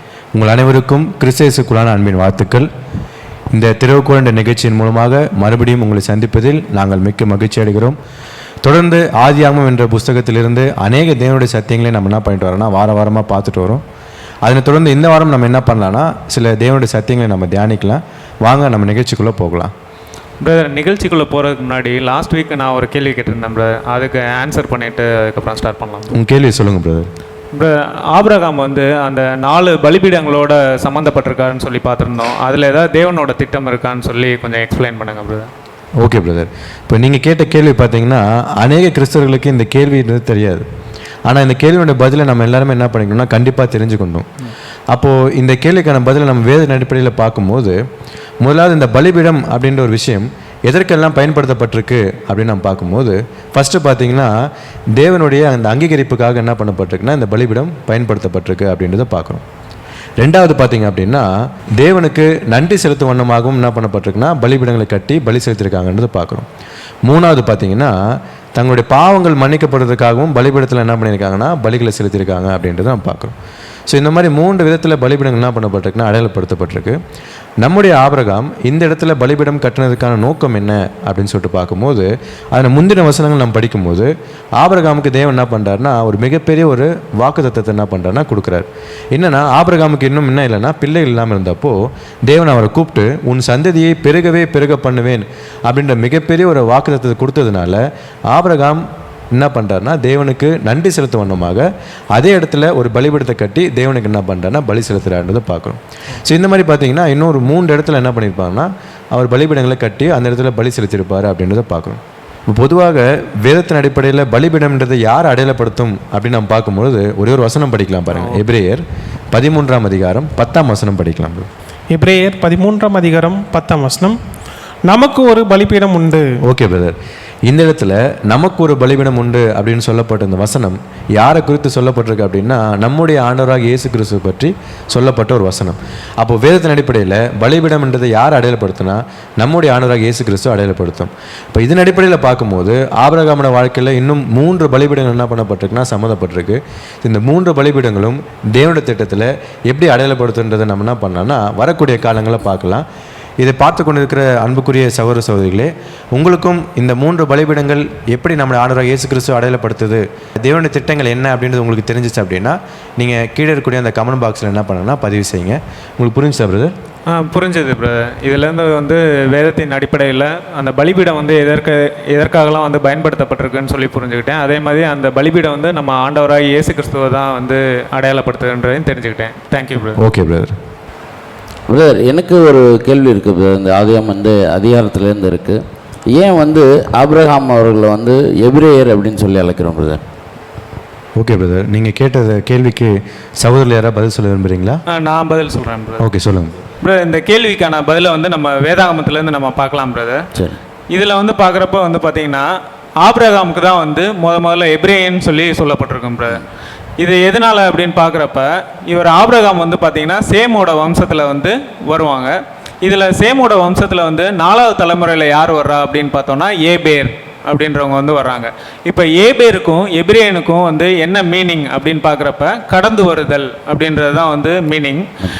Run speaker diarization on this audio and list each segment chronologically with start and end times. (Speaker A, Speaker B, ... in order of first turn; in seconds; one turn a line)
Speaker A: 0.3-2.7
Speaker A: 3.5-8.0
Speaker A: 8.6-13.8
Speaker A: 14.4-19.7
Speaker B: 20.4-26.1
Speaker A: 26.1-27.1
Speaker B: 27.5-35.5
Speaker A: 36.0-40.6
Speaker A: 41.3-44.3
Speaker A: 44.9-47.8
Speaker A: 48.4-54.3
Speaker A: 55.0-59.4
Speaker A: 60.2-61.3
Speaker A: 61.8-66.5
Speaker A: 67.0-67.9
Speaker A: 68.5-73.3
Speaker A: 73.9-77.0
Speaker A: 77.6-121.5
Speaker C: 121.9-124.2
Speaker C: 124.9-126.2
Speaker A: 126.5-127.0
Speaker A: 127.5-152.9
Speaker A: 153.4-166.7
Speaker B: 167.1-180.0
Speaker A: 180.0-180.5
Speaker D: 181.7-185.6
Speaker D: 186.1-190.0
Speaker A: 191.2-194.8
Speaker B: 194.9-196.1
Speaker A: 196.0-196.6
Speaker B: 196.8-200.2
Speaker B: 200.9-202.5
Speaker B: 203.0-206.4
Speaker B: 207.0-225.1